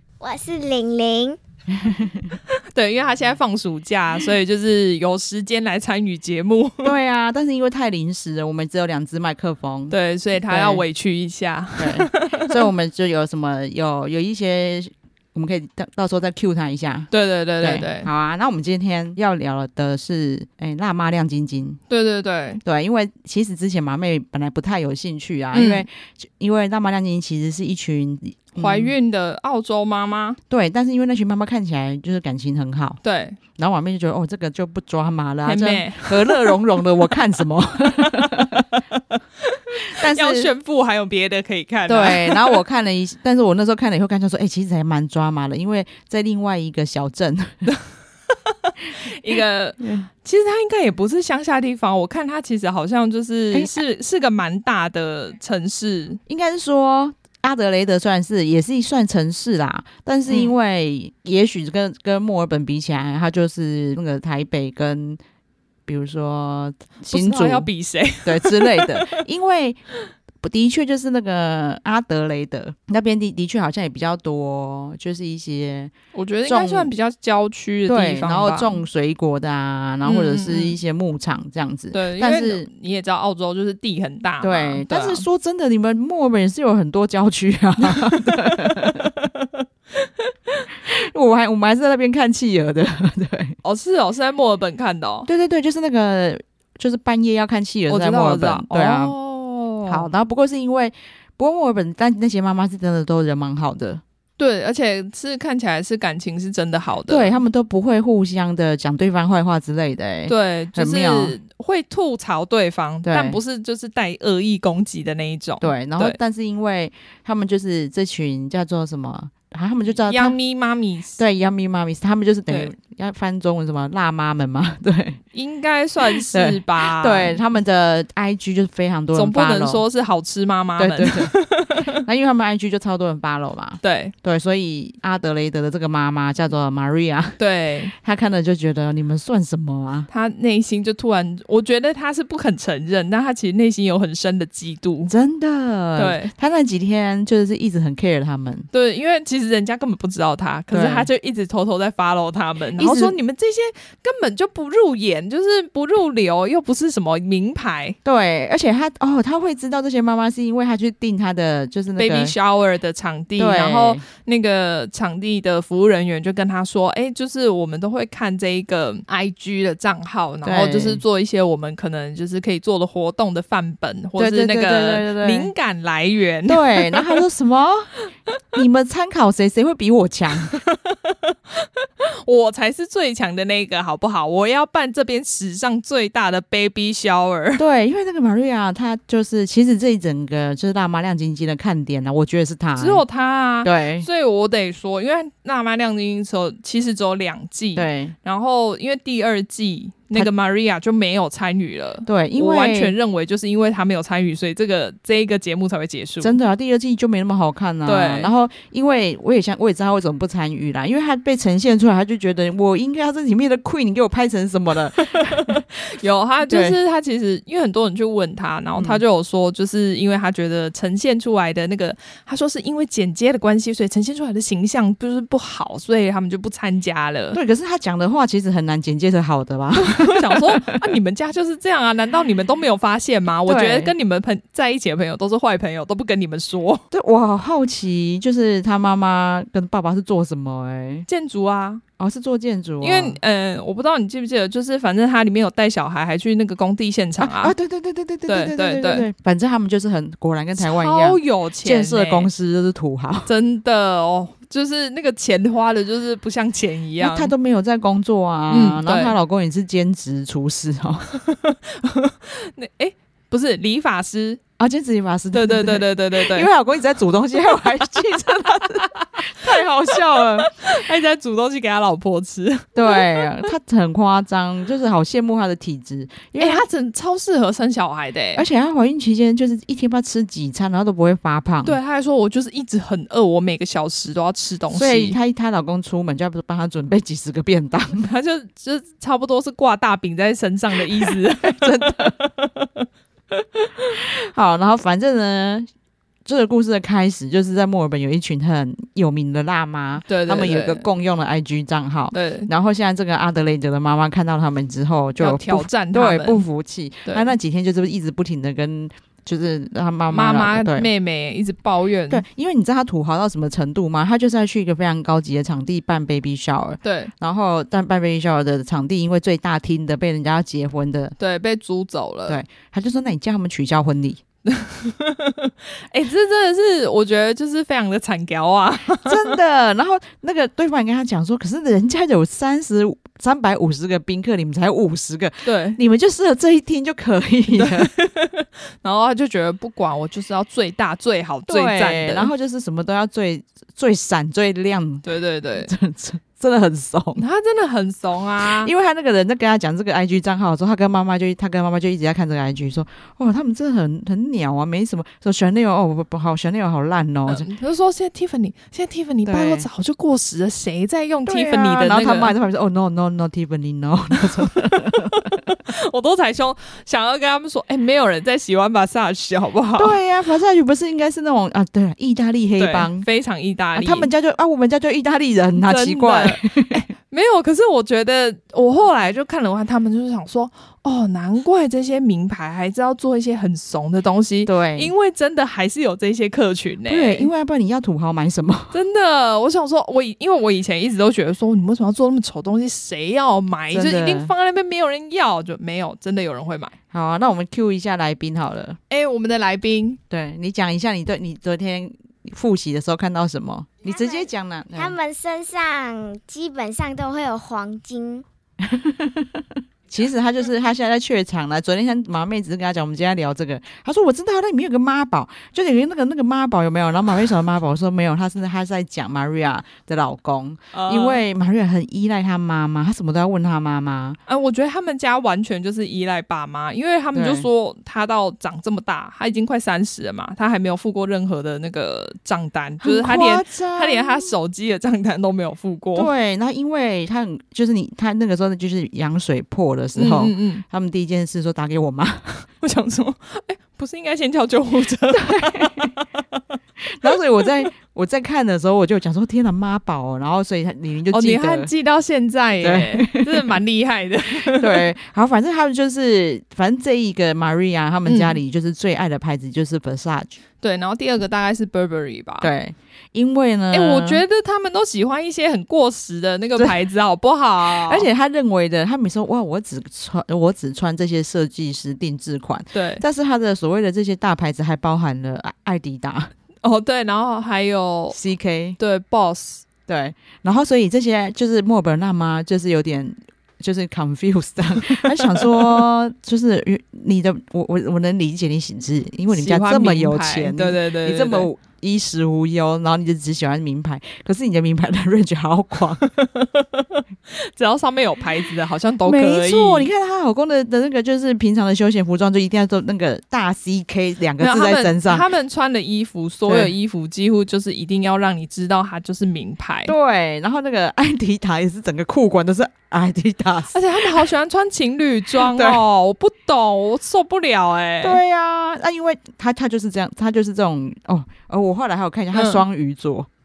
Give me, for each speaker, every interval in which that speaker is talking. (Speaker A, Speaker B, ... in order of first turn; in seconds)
Speaker A: 0.2-1.4, 403.9-408.2
Speaker B: 1.8-2.3, 6.8-10.8, 11.8-17.1, 17.6-21.8, 22.6-28.9, 30.5-33.0, 33.6-38.6, 40.0-40.5, 41.9-47.7, 49.8-50.1, 56.3-65.2, 65.9-67.7, 68.2-69.8, 70.4-75.9, 76.5-76.9, 77.9-82.7, 84.4-89.1, 90.9-93.6, 95.3-99.2, 99.9-104.0, 107.1-111.4, 113.0-113.4, 115.6-120.4, 121.2-125.2, 126.1-129.8, 130.8-131.4, 131.9-137.4, 137.9-140.1, 145.1-148.7, 150.7-151.1, 152.8-153.2, 158.1-162.3, 163.4-164.0, 170.4-171.0, 174.2-175.5, 176.5-177.9, 178.5-180.5, 187.6-193.0, 193.6-194.1, 197.8-198.2, 202.1-202.9, 206.2-215.6, 216.5-216.8, 218.8-219.0, 227.3-230.8, 233.5-233.9, 236.9-241.1, 242.0-243.2, 247.2-253.3, 257.0-261.1, 264.6-270.5, 272.8-276.6, 278.4-281.8, 284.7-288.1, 291.6-292.1, 293.8-295.7, 296.2-310.9, 312.1-321.1, 322.3-324.2, 329.1-337.9, 341.5-347.2, 348.4-357.5, 359.3-359.7, 361.3-365.3, 369.8-373.1, 373.8-376.9, 384.4-384.9, 386.9-388.8, 393.7-394.3, 396.9-398.8, 400.1-404.9, 408.6-424.2, 427.1-427.5, 432.8-434.3, 436.0-442.5, 445.1-445.9, 446.8-451.7, 452.6-453.6, 454.4-460.4, 462.4-464.2, 467.7-476.3, 478.1-478.8, 479.9-496.0, 499.1-505.3, 509.9-514.3, 515.4-515.8, 518.0-523.3
Speaker C: 2.7-6.9, 9.9-12.7, 17.1-18.1, 21.9-22.6, 25.5-25.9, 28.6-30.4, 33.0-33.4, 35.4-36.5, 37.9-42.6, 48.5-56.2, 60.3-60.5, 67.1-69.2, 76.1-78.8, 80.0-80.8, 81.9-85.2, 87.9-89.6, 93.6-95.3, 97.9-100.1, 104.4-107.3, 110.3-116.2, 120.0-121.2, 125.3-127.4, 129.1-132.0, 133.8-134.1, 137.4-137.9, 140.1-145.1, 146.0-146.3, 148.7-158.0, 162.0-177.2, 180.6-187.6, 192.8-206.4, 207.9-208.3, 215.0-227.4, 230.0-236.8, 241.1-241.8, 242.8-247.6, 248.3-249.1, 250.6-252.3, 253.3-257.3, 258.5-259.1, 261.2-264.4, 265.3-266.5, 268.8-269.3, 269.9-273.5, 276.4-278.4, 281.6-285.2, 288.0-292.9, 300.1-300.9, 302.1-302.5, 305.2-306.4, 307.1-307.3, 310.1-312.2, 316.8-317.1, 321.2-322.4, 324.5-329.3, 335.4-335.8, 337.5-342.3, 345.1-345.7, 347.2-348.7, 357.3-362.3, 364.9-370.0, 372.6-374.1, 375.6-387.3, 388.7-396.8, 398.9-400.0, 420.7-421.2, 424.3-436.1, 440.0-440.6, 442.6-446.4, 451.1-454.9, 458.1-458.4, 460.6-462.5, 463.7-468.1, 472.7-473.0, 476.6-478.2, 478.8-479.6, 489.3-491.5, 496.0-499.9, 504.4-509.9, 513.7-518.2, 522.3-522.6